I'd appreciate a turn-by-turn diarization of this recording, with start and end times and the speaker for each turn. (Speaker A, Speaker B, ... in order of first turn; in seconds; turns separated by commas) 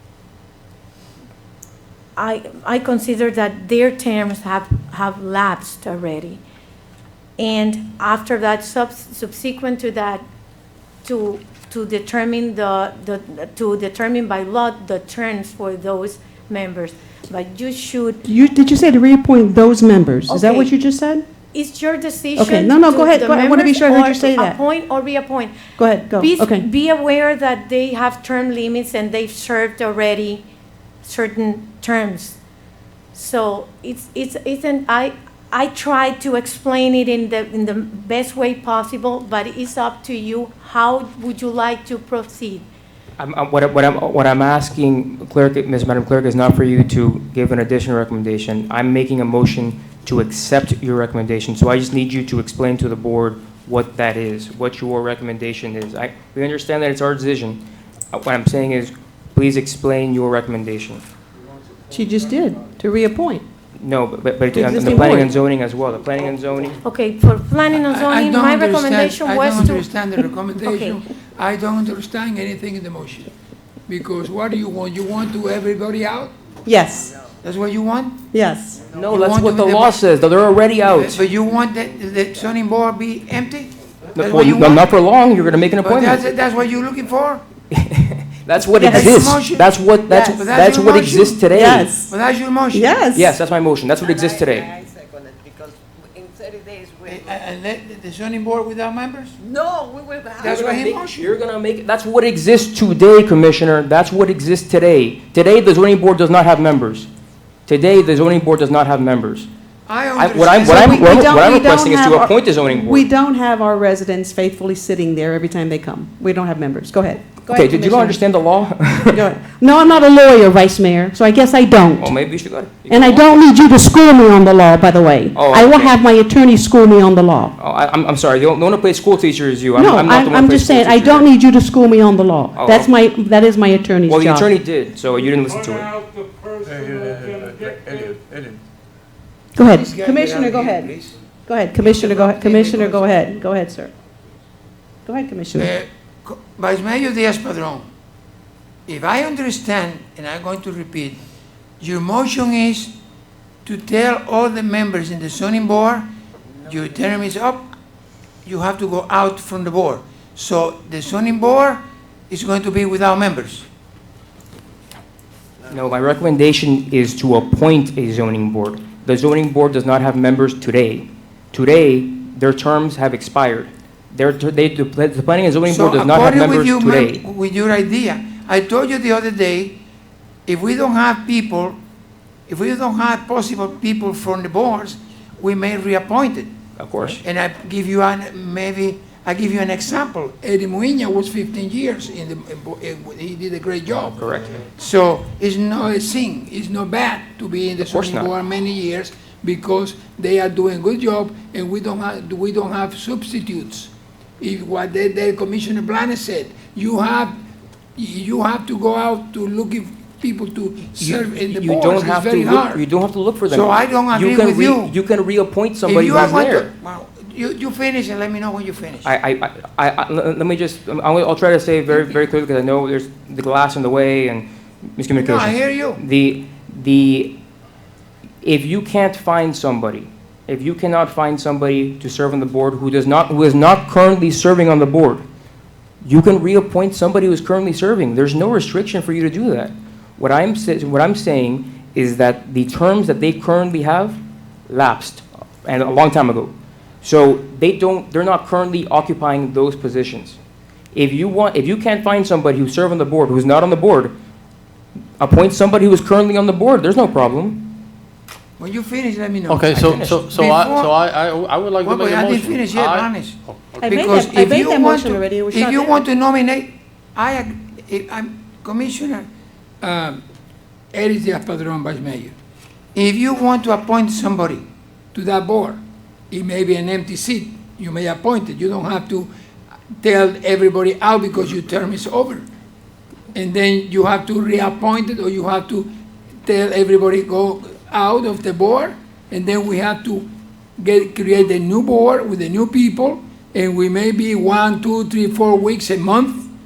Speaker A: 2.1-6.4, Speaker A: 7.4-10.2, Speaker A: 11.0-18.2, Speaker B: 18.2-21.2, Speaker A: 20.3-20.7, Speaker A: 21.5-30.4, Speaker B: 22.4-24.6, Speaker B: 25.8-26.7, Speaker A: 31.0-32.4, Speaker A: 33.1-42.7, Speaker C: 43.2-57.6, Speaker C: 58.1-61.0, Speaker B: 61.9-63.4, Speaker C: 63.8-66.8, Speaker B: 64.5-65.3, Speaker A: 66.8-69.8, Speaker D: 67.9-73.3, Speaker A: 70.6-71.0, Speaker D: 73.9-76.3, Speaker B: 76.7-77.1, Speaker D: 77.4-78.2, Speaker B: 78.3-78.8, Speaker C: 78.9-81.2, Speaker D: 78.9-80.0, Speaker D: 80.8-84.8, Speaker C: 84.1-86.2, Speaker D: 85.8-87.4, Speaker C: 87.7-91.9, Speaker D: 88.7-89.7, Speaker B: 88.8-89.2, Speaker B: 90.1-90.4, Speaker D: 90.3-91.5, Speaker B: 91.5-92.1, Speaker D: 92.0-93.1, Speaker B: 92.7-93.3, Speaker C: 93.1-94.8, Speaker E: 94.5-97.1, Speaker D: 97.0-99.4, Speaker E: 99.4-100.4, Speaker D: 100.4-101.3, Speaker C: 100.4-107.1, Speaker C: 107.7-109.5, Speaker D: 109.9-110.9, Speaker C: 110.1-113.1, Speaker B: 110.6-118.2, Speaker C: 117.5-119.3, Speaker B: 119.1-122.2, Speaker C: 122.0-123.6, Speaker B: 122.9-127.5, Speaker C: 125.3-126.0, Speaker C: 127.6-131.3, Speaker B: 129.8-134.5, Speaker C: 132.5-132.9, Speaker C: 134.1-136.0, Speaker F: 135.9-138.1, Speaker G: 136.6-138.6, Speaker B: 139.6-140.9, Speaker D: 139.7-141.2, Speaker B: 141.4-143.9, Speaker D: 141.8-143.1, Speaker B: 145.1-145.7, Speaker D: 145.5-147.9, Speaker D: 148.9-151.2, Speaker D: 151.8-152.9, Speaker D: 153.6-156.1, Speaker D: 156.6-157.6, Speaker D: 158.4-163.7, Speaker C: 165.7-177.2, Speaker D: 175.7-179.8, Speaker D: 180.4-181.8, Speaker D: 182.5-186.5, Speaker C: 186.8-187.2, Speaker D: 187.0-207.3, Speaker C: 194.1-194.6, Speaker C: 197.8-198.3, Speaker D: 207.9-212.8, Speaker C: 211.0-216.7, Speaker D: 213.5-214.9, Speaker D: 215.8-219.1, Speaker C: 219.0-227.4, Speaker D: 225.1-226.0, Speaker C: 228.4-235.2, Speaker C: 236.0-250.4, Speaker C: 250.9-254.1, Speaker C: 255.2-257.9, Speaker D: 258.6-260.9, Speaker G: 259.5-263.9, Speaker C: 259.7-260.2, Speaker D: 261.8-269.3, Speaker B: 263.8-266.0, Speaker D: 269.8-270.2, Speaker D: 270.9-272.3, Speaker D: 272.9-275.8, Speaker D: 276.3-279.3, Speaker D: 280.0-282.4, Speaker D: 283.3-285.9, Speaker D: 286.4-296.4